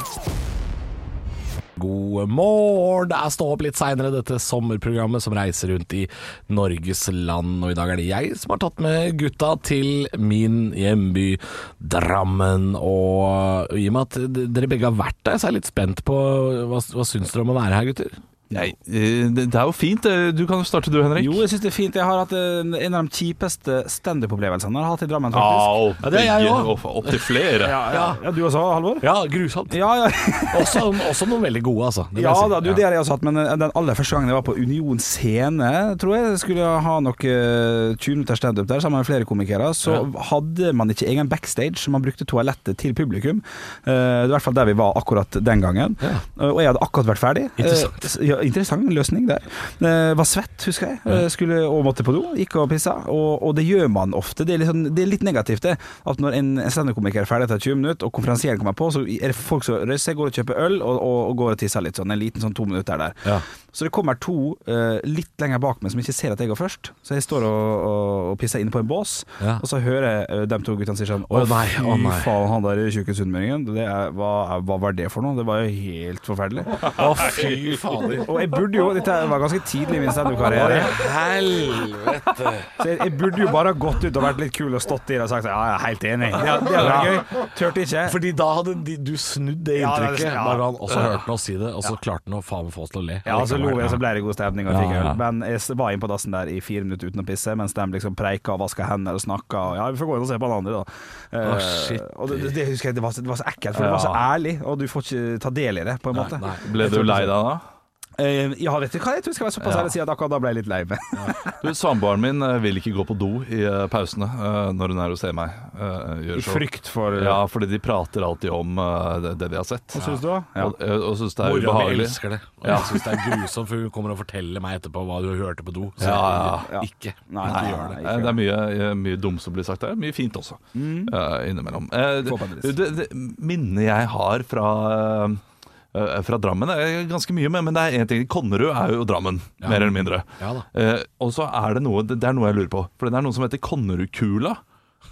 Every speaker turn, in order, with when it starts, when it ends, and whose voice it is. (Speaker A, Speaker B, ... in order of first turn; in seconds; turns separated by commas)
Speaker A: 1.8-18.1, Speaker B: 18.5-21.4, Speaker C: 21.2-25.8, Speaker B: 25.3-27.8, Speaker A: 26.0-28.2, Speaker C: 27.6-29.1, Speaker A: 29.0-29.8, Speaker C: 29.7-30.9, Speaker A: 30.5-32.8, Speaker C: 32.1-77.5, Speaker A: 47.6-48.0, Speaker A: 71.3-72.4, Speaker A: 76.9-78.4, Speaker C: 78.2-81.0, Speaker A: 80.4-82.7, Speaker C: 82.8-88.2, Speaker A: 86.7-87.2, Speaker A: 88.0-94.0, Speaker C: 89.8-90.7, Speaker C: 93.2-107.3, Speaker B: 94.7-95.2, Speaker A: 101.4-102.5, Speaker B: 103.7-104.2, Speaker B: 106.2-107.6, Speaker A: 106.3-107.1, Speaker C: 108.2-111.6, Speaker B: 109.6-109.9, Speaker B: 111.6-123.1, Speaker C: 116.3-117.4, Speaker C: 119.9-120.7, Speaker A: 121.4-128.0, Speaker B: 126.0-126.7, Speaker C: 126.6-128.4, Speaker B: 127.4-135.4, Speaker C: 130.7-131.1, Speaker C: 132.2-132.7, Speaker B: 135.9-144.6, Speaker A: 139.6-140.7